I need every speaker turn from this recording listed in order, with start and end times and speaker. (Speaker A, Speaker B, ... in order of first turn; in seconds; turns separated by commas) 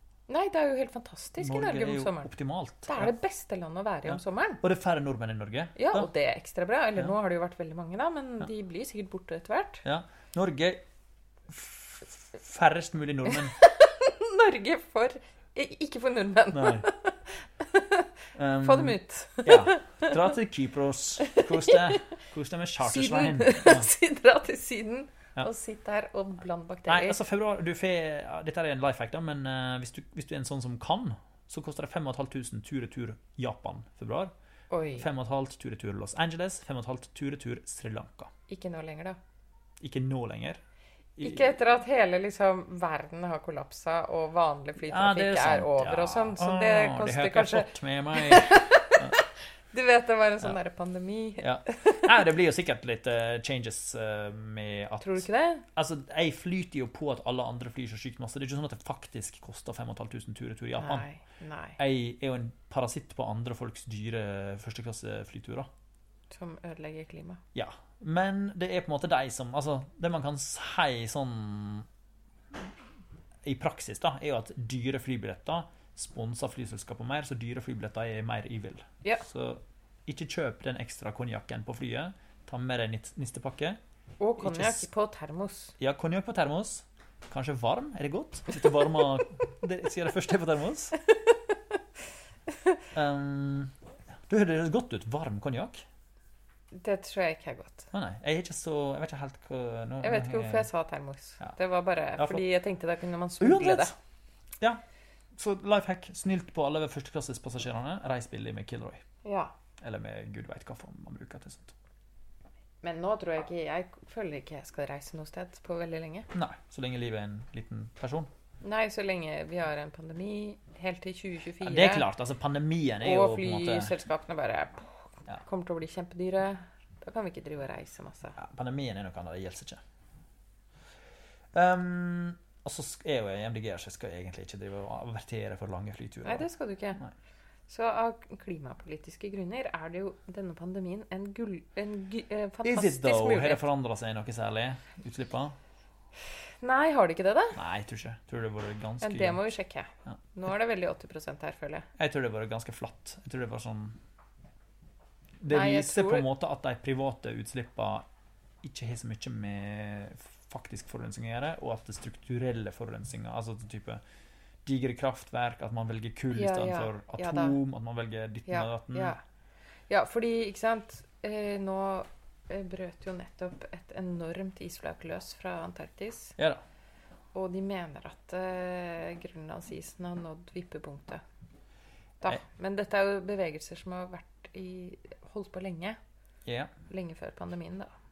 Speaker A: 0.3-2.3, Speaker B: 1.4-3.1, Speaker A: 2.9-4.6, Speaker B: 4.1-6.1, Speaker A: 5.8-9.8, Speaker B: 9.8-10.8, Speaker B: 11.5-13.6, Speaker A: 13.3-18.1, Speaker B: 16.5-16.9, Speaker B: 18.4-23.9, Speaker A: 18.6-20.2, Speaker A: 21.2-22.0, Speaker A: 22.8-27.2, Speaker B: 26.9-34.3, Speaker A: 34.7-35.1, Speaker B: 35.0-38.3, Speaker A: 38.5-39.2, Speaker B: 39.8-40.6, Speaker B: 41.2-41.6, Speaker A: 41.2-52.1, Speaker B: 44.8-49.2, Speaker B: 51.4-61.1, Speaker A: 55.0-55.6, Speaker A: 60.8-61.8, Speaker B: 61.8-65.7, Speaker A: 66.3-67.4, Speaker B: 67.5-71.9, Speaker B: 73.4-83.8, Speaker A: 84.2-85.7, Speaker B: 84.4-84.9, Speaker B: 85.8-91.0, Speaker B: 92.9-93.7, Speaker B: 94.3-95.8, Speaker A: 96.7-97.9, Speaker B: 97.9-100.7, Speaker A: 100.0-103.9, Speaker B: 102.2-102.4, Speaker B: 103.4-103.9, Speaker B: 105.3-109.0, Speaker A: 109.2-109.5, Speaker B: 109.8-111.7, Speaker A: 112.8-116.3, Speaker B: 116.3-118.3, Speaker A: 118.6-122.0, Speaker B: 121.6-124.0, Speaker A: 123.0-128.4, Speaker B: 128.4-129.8, Speaker B: 131.5-137.1, Speaker A: 136.2-137.0, Speaker A: 137.7-143.6, Speaker B: 142.6-145.6, Speaker A: 146.6-147.6, Speaker B: 147.6-149.4, Speaker A: 149.0-151.9, Speaker B: 152.0-154.0, Speaker B: 155.4-158.1, Speaker A: 155.5-156.3, Speaker B: 158.6-164.0, Speaker B: 164.7-169.2, Speaker A: 166.3-167.6, Speaker A: 168.5-169.2, Speaker A: 169.9-176.4, Speaker B: 176.4-176.6, Speaker A: 177.3-181.2, Speaker A: 182.2-186.0, Speaker B: 186.5-186.7, Speaker A: 186.9-187.9